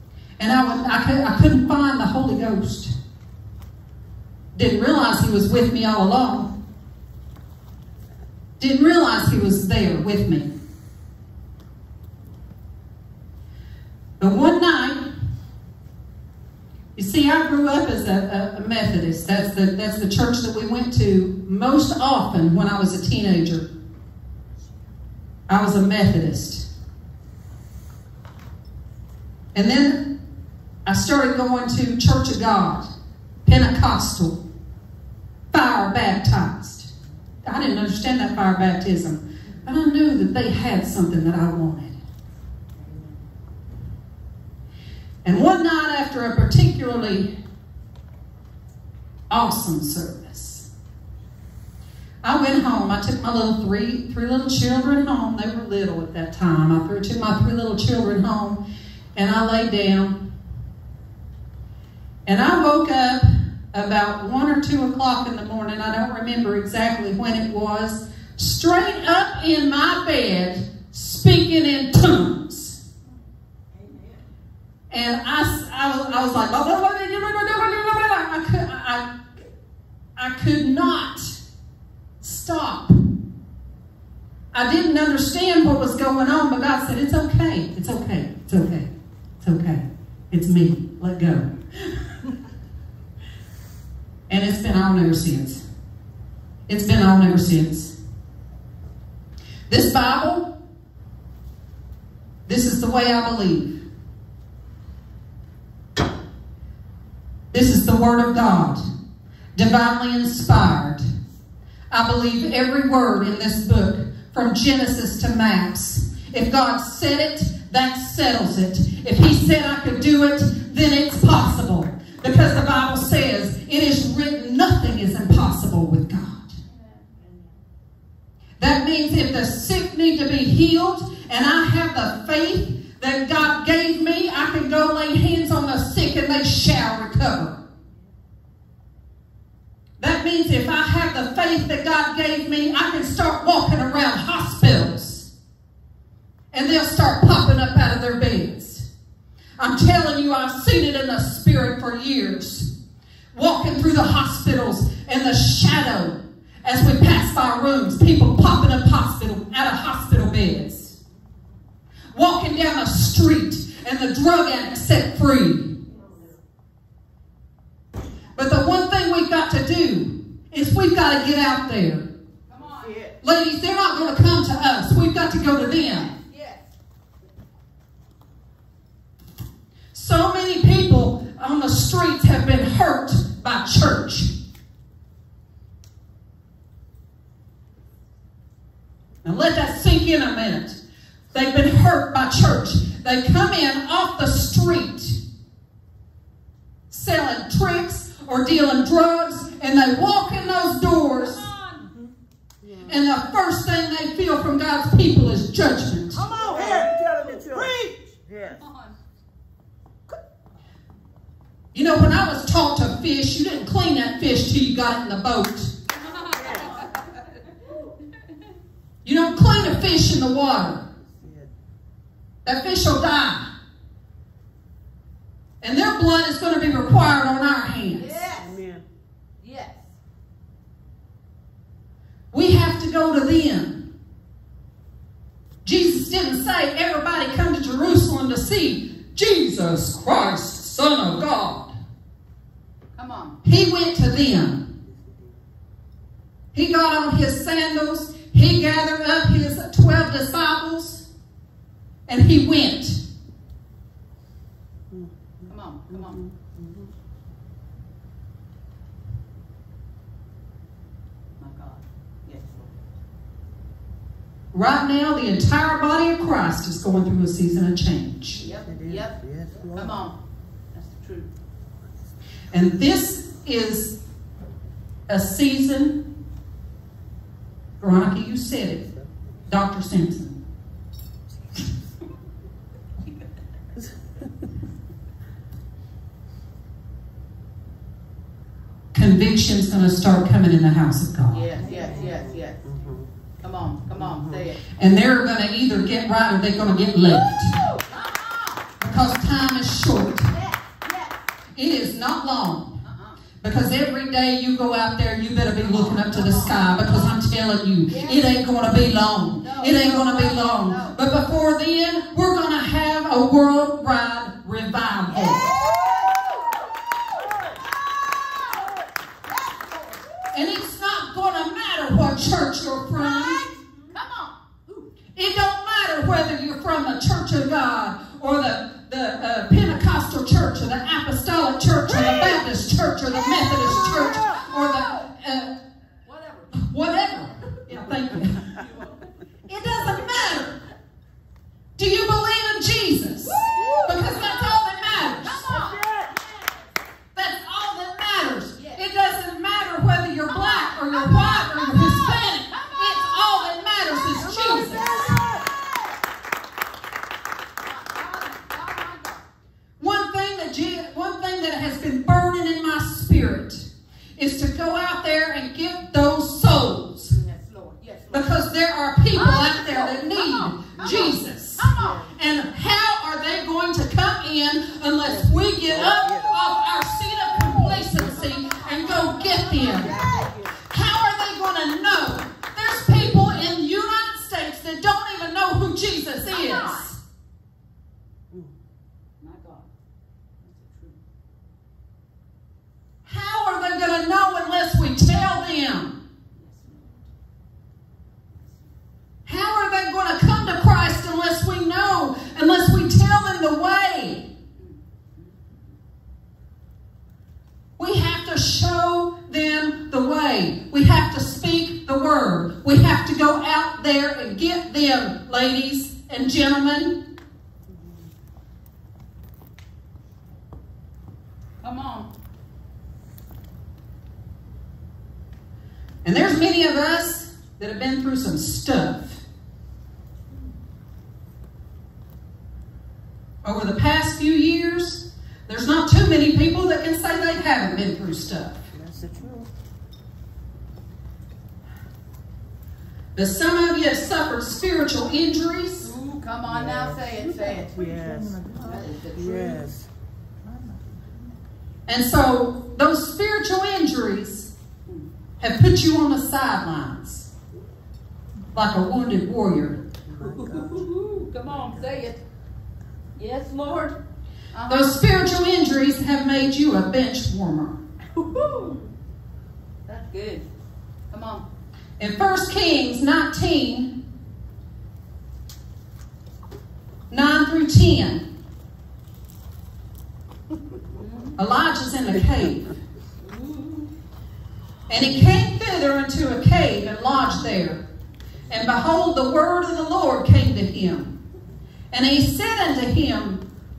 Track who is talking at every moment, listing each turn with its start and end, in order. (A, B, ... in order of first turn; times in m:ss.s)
0:00.4-0:02.9 A
0:04.5-0:06.5 A
0:08.6-0:10.5 A
0:14.2-0:15.1 A
0:16.9-0:23.7 A
0:25.5-0:26.7 A
0:29.5-0:30.2 A
0:30.8-0:32.9 A
0:33.4-0:34.4 A
0:35.5-0:36.9 A
0:37.4-0:42.0 A
0:42.8-0:43.1 B
0:45.2-0:47.3 A
0:49.3-0:50.7 A
0:52.2-0:58.6 A
0:59.2-1:00.2 A
1:02.2-1:12.8 A
1:14.9-1:19.1 A
1:20.2-1:21.4 A
1:22.2-1:23.0 A
1:24.5-1:28.9 A
1:29.4-1:31.5 A
1:34.3-1:35.6 A
1:36.7-1:37.9 A
1:39.7-1:40.5 A
1:42.4-1:43.7 A
1:47.5-1:48.8 A
1:49.5-1:51.0 A
1:51.9-2:06.6 A
2:06.7-2:07.0 C
2:08.6-2:17.6 A
2:20.0-2:25.3 A
2:26.5-2:28.9 A
2:29.6-2:32.7 A
2:33.3-2:40.9 A
2:42.1-2:45.8 A
2:48.3-2:52.1 A
2:52.5-2:53.0 C
2:52.6-2:53.2 B
2:53.2-2:56.1 A
2:55.8-2:56.7 C
2:59.9-3:04.3 A
3:09.2-3:10.8 A
3:11.3-3:15.2 A
3:16.9-3:21.4 A
3:21.2-3:21.9 C
3:22.6-3:23.0 B
3:22.8-3:26.3 A
3:26.2-3:28.9 C
3:26.4-3:28.7 B
3:31.7-3:35.7 A
3:36.0-3:36.9 C
3:36.0-3:36.9 B
3:39.0-3:40.8 A
3:41.0-3:41.5 B
3:42.4-3:43.5 A
3:45.6-3:48.2 A
3:47.9-3:48.6 C
3:48.4-3:48.8 B
3:49.4-3:49.9 C
3:52.3-3:53.8 A
3:55.6-4:01.7 A
4:03.0-4:03.4 C
4:03.4-4:04.7 A
4:04.8-4:05.4 B
4:06.5-4:11.0 A
4:12.1-4:13.0 A
4:14.9-4:16.9 B
4:15.5-4:16.2 C
4:21.4-4:22.8 C
4:24.5-4:28.4 A
4:28.4-4:29.1 C
4:28.4-4:30.0 B
4:29.7-4:30.1 C
4:30.7-4:31.3 C
4:32.5-4:34.0 A
4:35.1-4:36.0 A
4:37.8-4:38.9 A
4:39.5-4:40.4 A
4:48.9-4:51.5 A
4:51.3-4:52.6 C
4:51.6-4:53.2 B
4:53.4-4:54.6 C
4:53.9-4:54.5 B
4:54.8-4:57.6 A
4:57.4-4:58.7 C
4:58.8-5:00.3 A
5:00.3-5:01.2 C
5:01.5-5:02.8 A
5:02.8-5:03.2 C
5:03.4-5:15.5 A
5:05.6-5:07.1 C
5:07.9-5:08.3 C
5:09.4-5:10.9 C
5:15.1-5:16.3 C
5:17.4-5:18.7 C
5:19.2-5:20.0 C
5:20.3-5:23.5 A
5:23.0-5:24.3 C
5:25.1-5:35.6 A
5:36.0-5:36.6 C
5:36.5-5:38.5 A
5:38.6-5:38.9 C
5:39.5-5:40.6 A
5:41.8-5:45.5 A
5:43.5-5:43.9 C
5:45.2-5:46.7 C
5:45.5-5:46.1 B
5:47.2-5:55.0 A
5:48.6-5:48.8 C
5:50.3-5:55.6 C
5:54.2-5:55.6 B
5:57.6-5:59.2 C
5:59.8-6:07.2 A
6:07.1-6:08.4 C
6:08.1-6:20.1 A
6:09.1-6:12.0 C
6:11.8-6:12.1 B
6:15.0-6:16.4 B
6:17.4-6:20.4 C
6:19.9-6:20.5 B
6:20.6-6:27.0 A
6:26.3-6:26.9 C
6:29.2-6:29.7 C
6:30.4-6:31.0 C
6:33.0-6:36.0 A
6:36.3-6:37.0 C
6:39.2-6:44.3 A
6:44.6-6:45.3 C
6:47.8-6:57.0 A
7:01.6-7:02.1 C
7:06.0-7:09.2 A
7:13.4-7:18.6 A
7:18.7-7:19.5 B
7:23.2-7:25.9 A
7:25.8-7:27.7 C
7:26.5-7:27.0 B
7:27.6-7:29.9 B
7:28.6-7:29.6 C
7:31.9-7:34.5 A
7:35.4-7:37.3 A
7:38.5-7:39.8 A
7:40.0-7:42.1 B
7:40.2-7:42.2 C
7:43.2-7:44.0 C
7:44.5-7:45.0 C
7:44.7-7:47.8 A
7:48.1-7:48.8 C
7:49.8-7:50.4 C
7:51.1-7:51.4 C
7:52.0-7:54.0 A
7:57.1-7:58.2 A
8:00.9-8:01.3 C
8:01.4-8:02.7 A
8:03.2-8:03.9 C
8:04.9-8:07.8 A
8:08.5-8:11.2 A
8:11.9-8:13.4 A